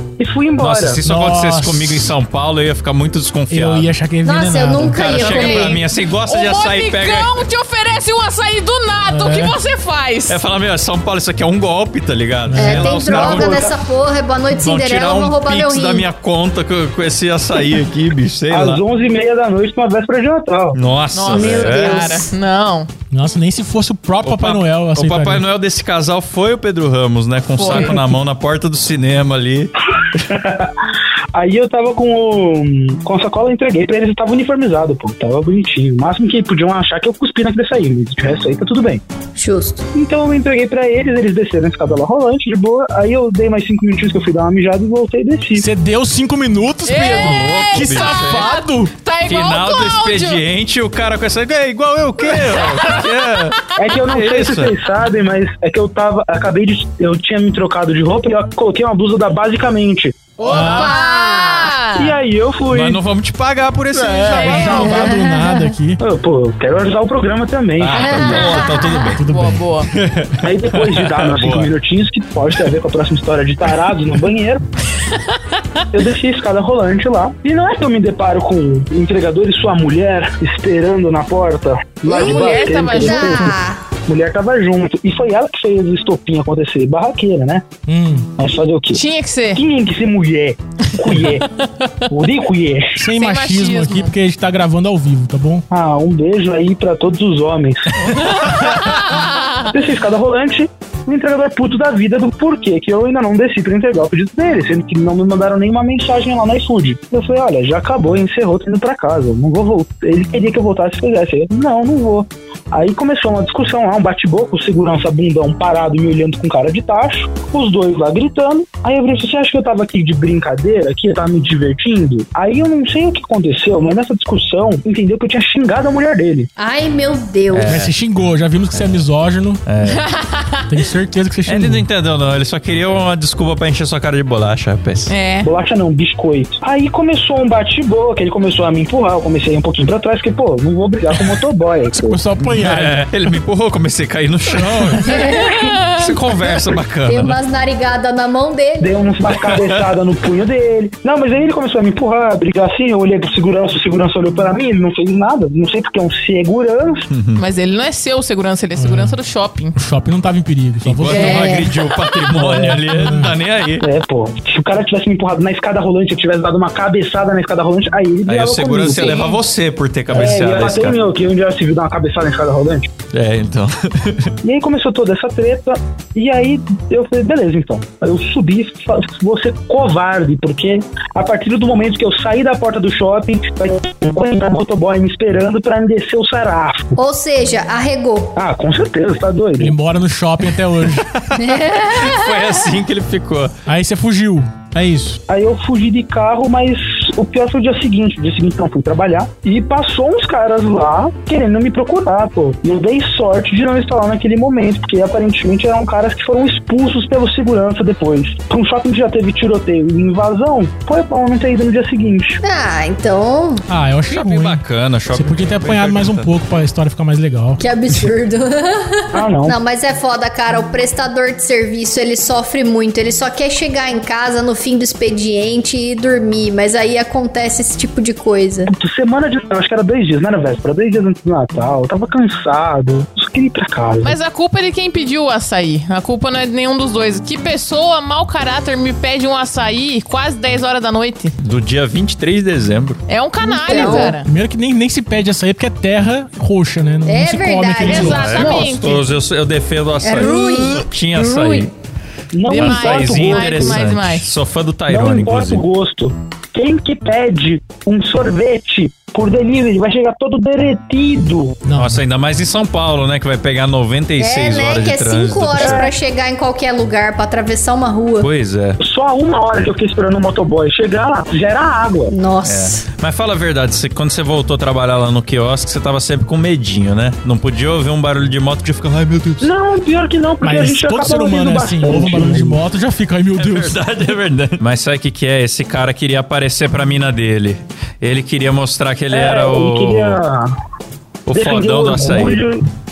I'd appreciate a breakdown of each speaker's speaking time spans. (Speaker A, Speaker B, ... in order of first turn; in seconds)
Speaker A: 0.2-1.0, 13.1-13.8, 18.5-20.8, 30.1-30.7, 31.3-39.0, 39.9-45.7, 53.8-60.1, 62.0-63.0, 66.0-68.5, 70.4-74.6, 75.9-83.5, 84.1-87.6, 88.4-91.5, 92.1-93.0, 95.7-97.9, 99.7-126.5, 135.4-142.2, 148.8-157.1, 162.4-162.8, 163.8-169.3, 170.1-172.9, 174.4-187.0, 188.3-189.8, 195.3-212.4, 219.1-219.6, 228.7-234.2, 252.3-253.9, 254.9-261.6, 265.6-265.9, 268.8-272.1, 279.4-282.6, 289.1-290.5, 291.3-292.6
Speaker B: 0.6-3.9, 4.9-7.4, 10.3-13.6, 14.5-18.8, 20.8-22.0, 24.2-29.7, 47.0-48.5, 49.2-54.7, 62.7-65.1, 67.8-69.2, 69.8-71.7, 98.4-98.9, 127.5-127.9, 129.7-130.1, 131.5-135.1, 142.4-145.2, 145.9-147.4, 149.5-149.8, 157.1-157.4, 160.8-163.9, 168.3-171.0, 173.1-174.3, 191.1-193.5, 214.1-216.3, 241.4-243.0, 248.0-251.7, 252.5-255.6, 261.7-265.9, 268.2-268.8, 272.4-279.5, 283.4-290.2, 291.3-292.4
Speaker C: 1.0-2.1, 3.5-5.5, 9.1-9.6, 12.5-13.2, 23.1-25.5, 27.7-28.0, 45.5-48.9, 60.4-61.0, 63.9-66.0, 69.2-69.7, 87.9-88.3, 93.0-95.7, 127.6-129.6, 130.7-131.9, 141.9-143.0, 144.5-145.0, 158.8-159.2, 159.8-163.3, 189.6-191.1, 193.7-195.2, 213.7-217.6, 244.0-248.4, 261.6-262.0, 280.4-283.8
Speaker D: 4.2-5.8, 12.6-16.1, 21.3-22.3, 39.4-39.8, 60.5-61.8, 64.8-65.6, 67.9-69.2, 82.1-83.8, 126.6-127.8, 145.0-145.7, 147.0-149.1, 161.1-161.8, 187.0-188.3, 191.4-192.7, 212.4-213.6, 217.6-228.7, 243.4-244.2, 247.1-248.7, 250.0-251.7, 264.2-268.3, 272.1-272.9
Speaker E: 5.1-10.4, 21.1-22.9, 27.5-28.0, 46.9-50.4, 52.2-53.1, 60.5-62.2, 64.4-64.8, 69.2-69.9, 82.1-83.6, 88.9-89.6, 93.0-94.1, 98.6-99.5, 129.9-130.5, 135.1-135.5, 145.4-146.2, 157.4-159.8, 234.0-241.3, 243.1-244.3, 247.8-249.1, 252.5-254.3